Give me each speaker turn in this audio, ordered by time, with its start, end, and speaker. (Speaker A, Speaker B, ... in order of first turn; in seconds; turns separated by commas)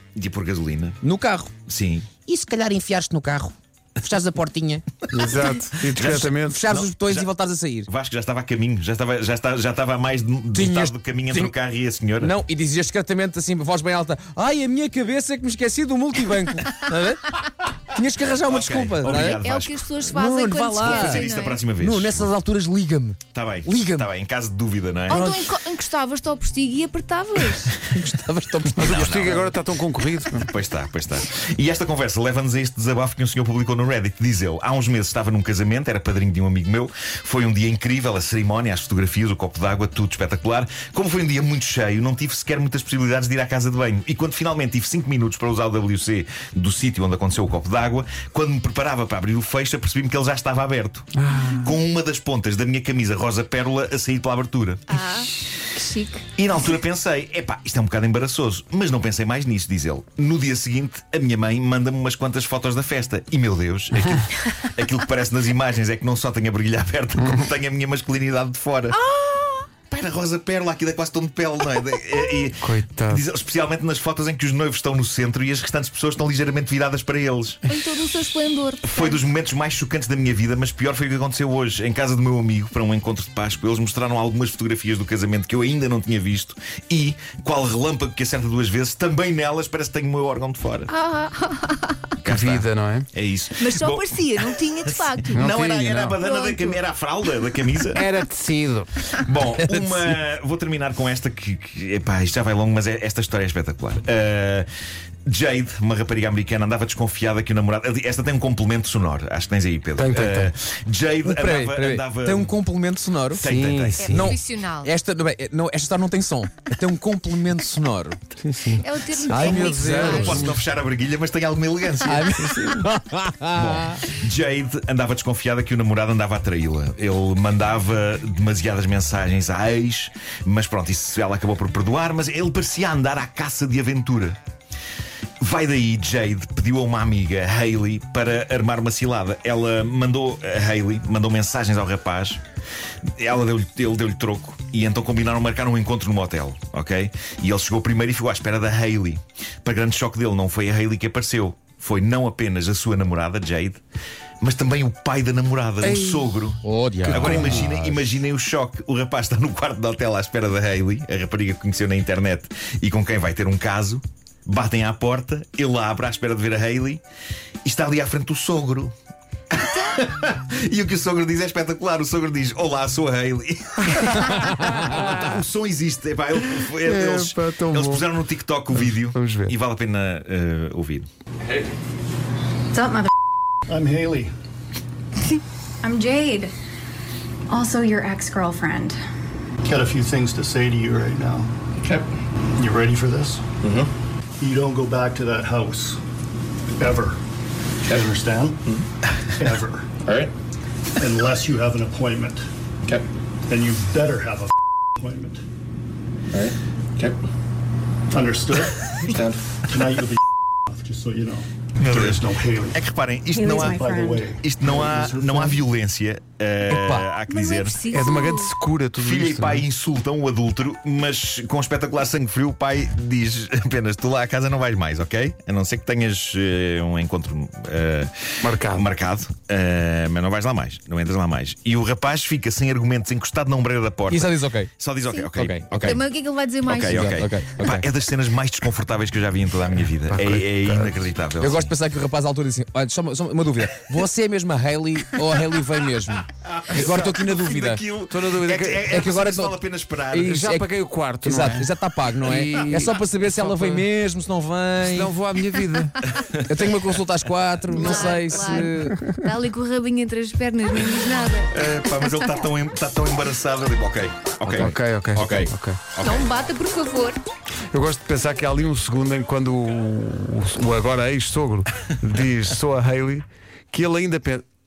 Speaker A: 0.1-1.0, Speaker B: 1.0-1.5, Speaker A: 1.7-2.1, Speaker B: 2.3-4.8, Speaker C: 5.1-6.6, Speaker A: 5.8-12.4, Speaker B: 6.4-7.9, Speaker B: 10.5-11.5, Speaker B: 12.2-17.3, Speaker B: 17.9-19.4, Speaker A: 18.3-19.9, Speaker D: 19.1-21.6, Speaker B: 20.0-21.3, Speaker A: 20.8-22.3, Speaker B: 21.8-24.1, Speaker A: 23.3-25.3, Speaker D: 25.1-27.7, Speaker B: 25.1-25.4, Speaker B: 27.8-29.4, Speaker A: 28.8-29.5, Speaker C: 28.8-30.5, Speaker A: 30.3-54.9, Speaker C: 51.2-51.7, Speaker D: 54.9-56.2, Speaker A: 56.4-69.0, Speaker D: 68.9-69.7, Speaker A: 69.9-77.7, Speaker C: 72.6-73.2, Speaker D: 77.7-79.2, Speaker A: 78.8-90.9, Speaker D: 90.9-92.1, Speaker A: 92.2-98.0, Speaker C: 92.2-93.1, Speaker D: 93.6-95.5, Speaker C: 95.3-96.2, Speaker D: 96.2-96.8, Speaker C: 97.9-98.9, Speaker A: 99.2-104.7, Speaker B: 99.6-100.2, Speaker A: 105.3-112.6, Speaker C: 110.0-110.5, Speaker B: 111.2-113.5, Speaker A: 113.3-114.4, Speaker C: 113.4-114.3, Speaker D: 114.0-114.9, Speaker B: 114.1-118.2, Speaker C: 118.4-118.8, Speaker D: 118.8-120.4, Speaker B: 119.1-120.4, Speaker A: 119.2-122.4, Speaker C: 119.5-120.6, Speaker B: 122.0-124.0, Speaker A: 123.5-134.4, Speaker A: 135.4-142.4, Speaker A: 143.2-153.8, Speaker A: 154.4-167.0, Speaker C: 155.8-156.3, Speaker B: 156.6-157.7, Speaker C: 157.1-157.9, Speaker A: 167.6-168.9, Speaker A: 169.5-181.1, Speaker C: 174.2-175.3, Speaker C: 176.8-178.1, Speaker C: 178.8-179.5, Speaker E: 182.7-183.1, Speaker F: 183.7-184.3, Speaker E: 185.8-186.5, Speaker E: 187.5-189.0, Speaker F: 189.6-191.5, Speaker G: 191.8-192.1, Speaker F: 192.6-193.5, Speaker G: 193.6-193.9, Speaker F: 194.4-196.0, Speaker F: 196.7-197.2, Speaker F: 197.8-198.6, Speaker F: 199.4-199.9, Speaker G: 200.1-200.3, Speaker F: 201.0-202.4, Speaker F: 203.5-205.4, Speaker G: 206.3-207.2, Speaker F: 208.1-209.1, Speaker G: 209.1-209.4, Speaker F: 209.7-212.8, Speaker A: 211.8-217.8, Speaker E: 213.4-214.2, Speaker F: 213.5-215.5, Speaker B: 216.7-217.1, Speaker D: 217.3-218.5, Speaker C: 217.9-219.7, Speaker A: 219.0-236.0, Speaker C: 228.4-228.8, Speaker B: 234.1-234.7, Speaker B: 235.4-236.0, Speaker D: 235.8-237.0, Speaker A: 236.6-241.8, Speaker B: 236.7-237.9, Speaker C: 240.1-241.0, Speaker B: 241.4-247.8, Speaker A: 246.4-250.5, Speaker C: 248.1-249.0, Speaker B: 248.9-249.6, Speaker B: 250.1-255.1, Speaker C: 250.2-251.7, Speaker C: 252.2-253.8, Speaker A: 252.6-252.8, Speaker C: 254.8-256.1, Speaker A: 256.2-256.6, Speaker B: 256.4-259.0, Speaker D: 257.7-258.7, Speaker C: 258.5-259.2, Speaker D: 259.2-262.2, Speaker A: 261.5-266.3, Speaker B: 264.4-264.7, Speaker C: 264.6-265.8, Speaker D: 266.0-267.2, Speaker C: 267.7-274.4